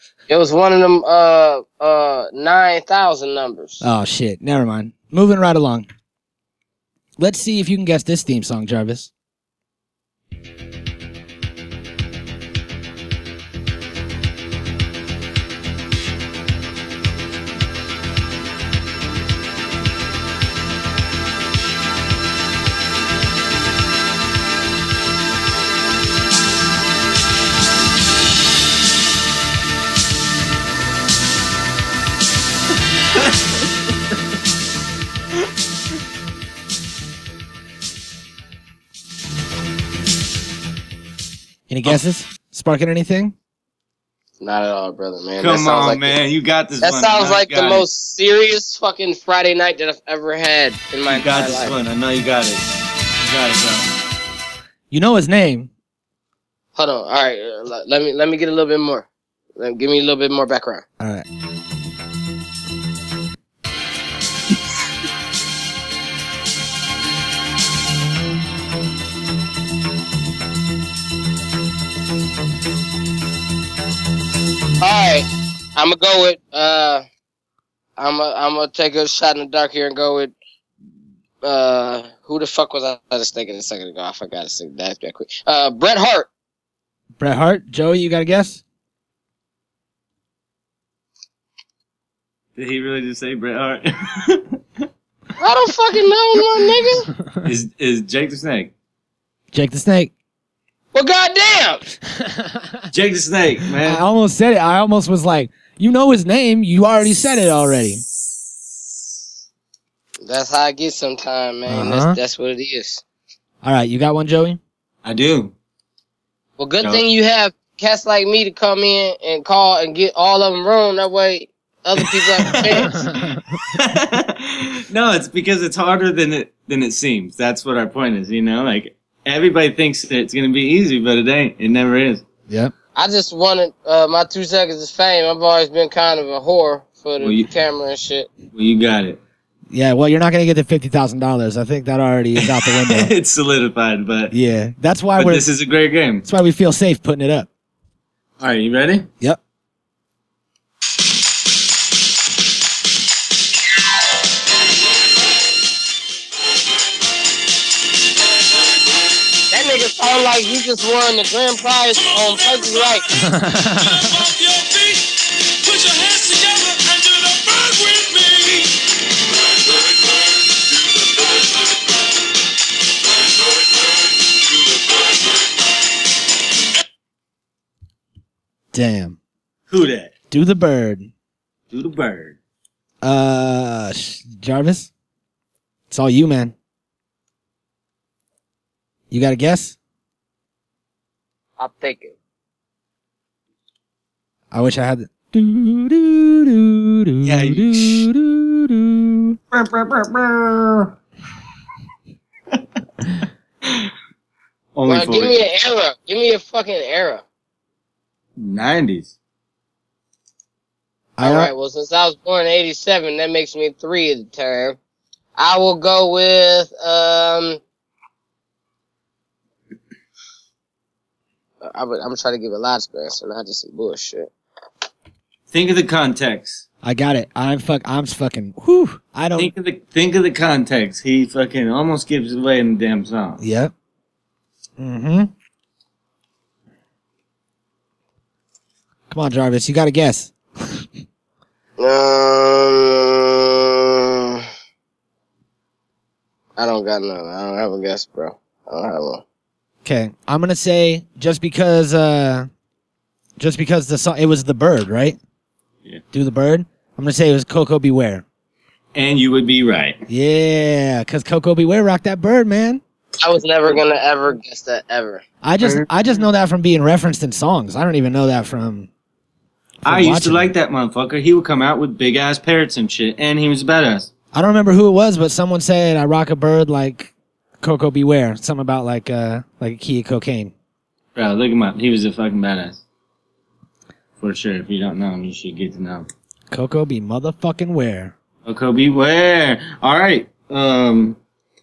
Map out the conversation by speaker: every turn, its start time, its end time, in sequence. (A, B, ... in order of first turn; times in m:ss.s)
0:00.3-0:03.8 A
0:03.8-0:05.9 B
0:07.2-0:09.1 B
0:41.7-0:43.3 B
0:44.4-0:46.2 A
0:45.4-0:47.8 C
0:46.8-0:51.7 A
0:51.1-0:52.6 C
0:53.2-0:53.8 C
0:54.9-0:55.7 B
0:56.7-1:00.8 A
1:01.0-1:01.2 B
1:14.8-1:17.0 A
1:18.0-1:20.3 A
1:21.4-1:26.3 A
1:27.2-1:28.6 B
1:32.6-1:34.8 C
1:35.4-1:37.1 A
1:37.4-1:38.7 C
1:39.5-1:40.1 B
1:40.9-1:41.8 A
1:42.2-1:42.8 B
1:42.9-1:44.0 C
1:43.8-1:48.0 B
1:50.2-1:53.0 A
1:51.7-1:52.2 B
1:53.6-1:54.6 B
1:55.0-1:55.5 C
1:56.6-2:03.1 A
2:02.0-2:02.8 C
2:02.9-2:03.4 B
2:03.7-2:12.2 C
2:12.9-2:18.3 A
2:17.2-2:17.5 C
2:18.5-2:19.2 C
2:19.7-2:23.1 B
2:22.4-2:24.3 C
2:24.3-2:25.5 B
2:25.2-2:26.2 C
2:26.2-2:27.5 B
2:28.4-2:29.1 C
2:39.5-2:43.0 A
2:42.0-2:48.7 D
2:43.3-2:43.9 B
2:49.4-2:51.8 D
2:53.2-2:55.2 D
2:58.7-2:59.2 B
2:59.7-3:00.1 C
3:00.3-3:01.1 B
3:01.7-3:02.4 C
3:03.0-3:04.9 B
3:05.9-3:06.5 B
3:09.1-3:09.8 B
3:11.6-3:12.1 A
3:14.5-3:19.4 B
3:17.2-3:18.1 C
3:19.5-3:20.9 C
3:23.6-3:23.9 C
3:24.7-3:25.3 C
3:24.9-3:27.2 A
3:28.4-3:29.1 C
3:31.2-3:31.5 B
3:31.2-3:34.8 A
3:35.4-3:37.6 A
3:41.6-3:44.3 A
3:45.5-3:46.6 C
3:46.8-3:49.5 B
3:49.4-3:53.4 C
3:53.4-3:53.7 B
3:54.8-3:55.3 B
3:59.1-4:00.8 B
4:01.8-4:04.4 A
4:06.6-4:09.2 A
4:09.8-4:12.5 B
4:13.4-4:15.2 B
4:16.1-4:18.2 B
4:18.9-4:20.0 C
4:20.1-4:22.8 B
4:23.2-4:25.2 A
4:25.4-4:28.9 B
4:25.6-4:25.9 C
4:29.8-4:30.5 B
4:29.8-4:34.1 C
4:34.3-4:40.5 B
4:41.1-4:42.8 C
4:44.2-4:46.1 C
4:46.5-4:48.1 B
4:48.4-4:51.2 C